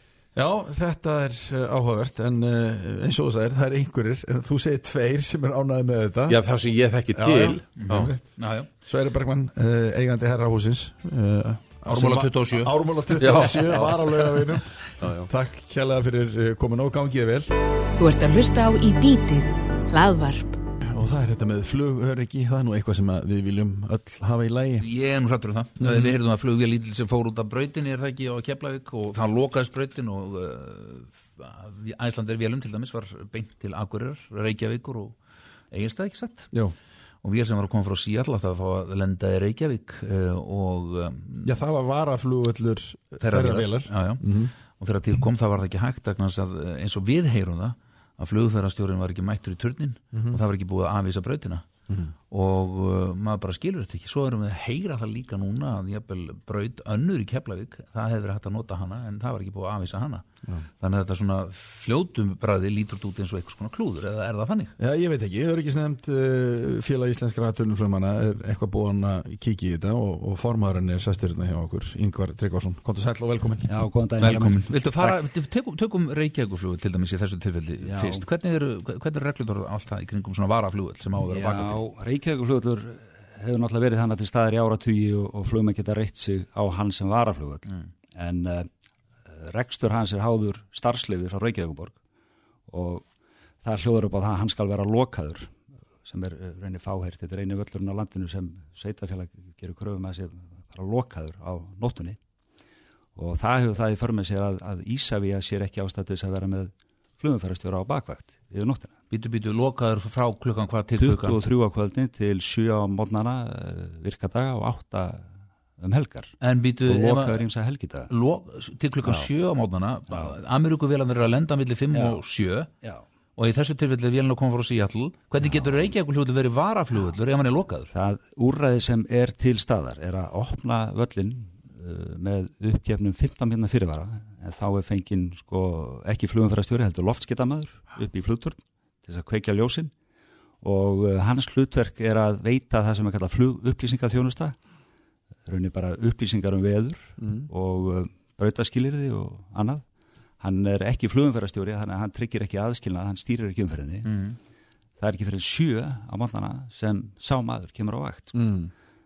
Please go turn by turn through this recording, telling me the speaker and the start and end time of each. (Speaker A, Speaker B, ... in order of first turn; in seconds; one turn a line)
Speaker A: 0.3-6.4
Speaker B: 6.3-7.7
Speaker A: 7.2-17.5
Speaker C: 7.8-8.7
Speaker C: 11.9-12.7
Speaker B: 13.2-14.3
Speaker B: 15.0-15.3
Speaker D: 18.0-20.6
Speaker A: 20.9-24.9
Speaker C: 24.8-35.1
Speaker A: 25.8-26.1
Speaker C: 35.7-36.6
Speaker C: 37.2-41.6
Speaker A: 41.5-44.5
Speaker C: 43.2-51.6
Speaker A: 50.1-50.4
Speaker C: 52.3-60.2
Speaker C: 60.8-64.8
Speaker A: 64.8-73.7
Speaker E: 73.7-75.2
Speaker C: 74.2-81.8
Speaker E: 77.8-78.2
Speaker E: 81.2-88.7
Speaker E: 89.3-92.0
Speaker E: 92.7-93.1
Speaker E: 93.6-102.2
Speaker E: 103.2-109.0
Speaker C: 109.1-111.4
Speaker E: 111.0-118.1
Speaker C: 116.4-117.4
Speaker C: 118.1-122.7
Speaker E: 119.0-119.3
Speaker E: 120.1-120.4
Speaker E: 121.9-122.2
Speaker C: 123.4-127.9
Speaker E: 125.4-125.8
Speaker E: 127.9-139.9
Speaker E: 140.6-144.6
Speaker E: 145.5-149.8
Speaker A: 147.2-147.5
Speaker E: 150.4-154.3
Speaker C: 154.1-154.4
Speaker E: 155.0-158.4
Speaker A: 158.3-158.7